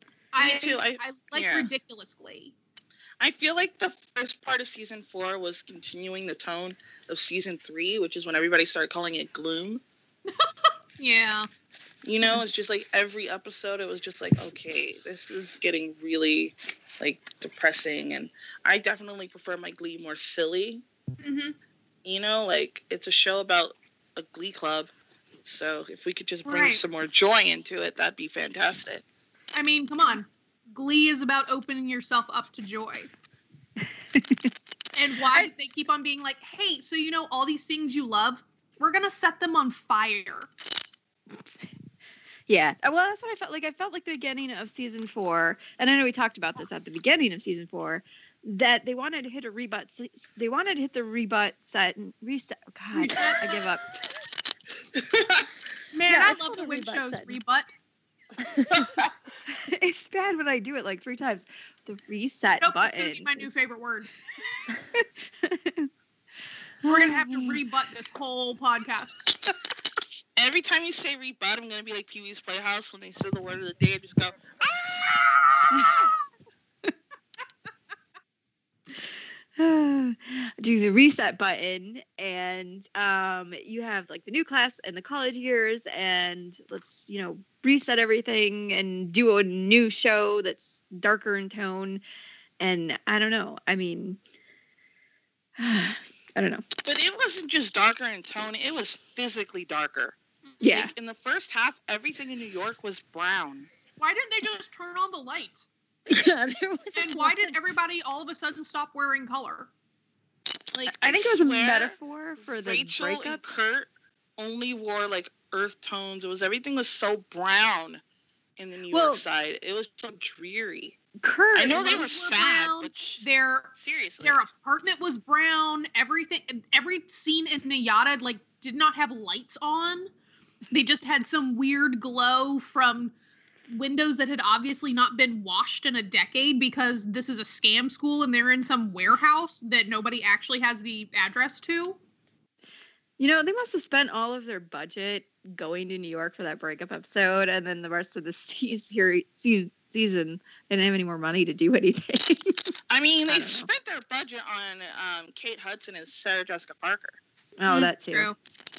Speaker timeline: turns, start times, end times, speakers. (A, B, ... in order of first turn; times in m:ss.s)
0:00.3-0:02.5 A
0:00.4-0:01.7 B
0:03.2-0:09.8 B
0:11.0-0:11.5 A
0:12.0-0:20.8 B
0:21.2-0:21.6 A
0:22.0-0:24.9 B
0:25.4-0:29.0 B
0:26.4-0:26.8 A
0:29.5-0:33.1 A
0:33.8-0:34.5 C
0:35.0-0:40.5 A
0:42.5-0:53.8 C
0:53.1-0:53.4 A
0:55.0-0:55.5 B
0:55.9-0:57.7 A
0:56.1-0:57.4 D
0:58.4-0:58.9 D
0:58.7-0:59.1 B
0:59.5-1:03.5 C
1:02.6-1:04.1 A
1:04.9-1:05.9 C
1:06.8-1:07.6 C
1:06.8-1:09.2 A
1:10.4-1:16.1 B
1:15.7-1:16.1 C
1:19.0-1:32.0 C
1:32.6-1:34.2 C
1:35.6-1:36.6 C
1:36.8-1:40.2 B
1:40.6-1:40.9 C
1:40.7-1:43.7 B
1:44.0-1:45.6 A
1:46.1-1:47.5 D
1:47.0-1:49.7 A
1:50.7-1:52.0 B
1:50.8-1:53.5 C
1:52.6-1:58.0 B
1:58.6-2:01.0 B
1:58.9-1:59.2 C
2:01.2-2:02.1 C
2:01.5-2:03.2 B
2:01.7-2:10.1 A
2:03.8-2:04.4 B
2:10.7-2:13.1 A
2:13.7-2:22.0 A
2:23.2-2:32.7 C
2:32.9-2:37.2 B
2:33.3-2:33.7 C
2:37.6-2:38.3 C
2:37.7-2:38.3 A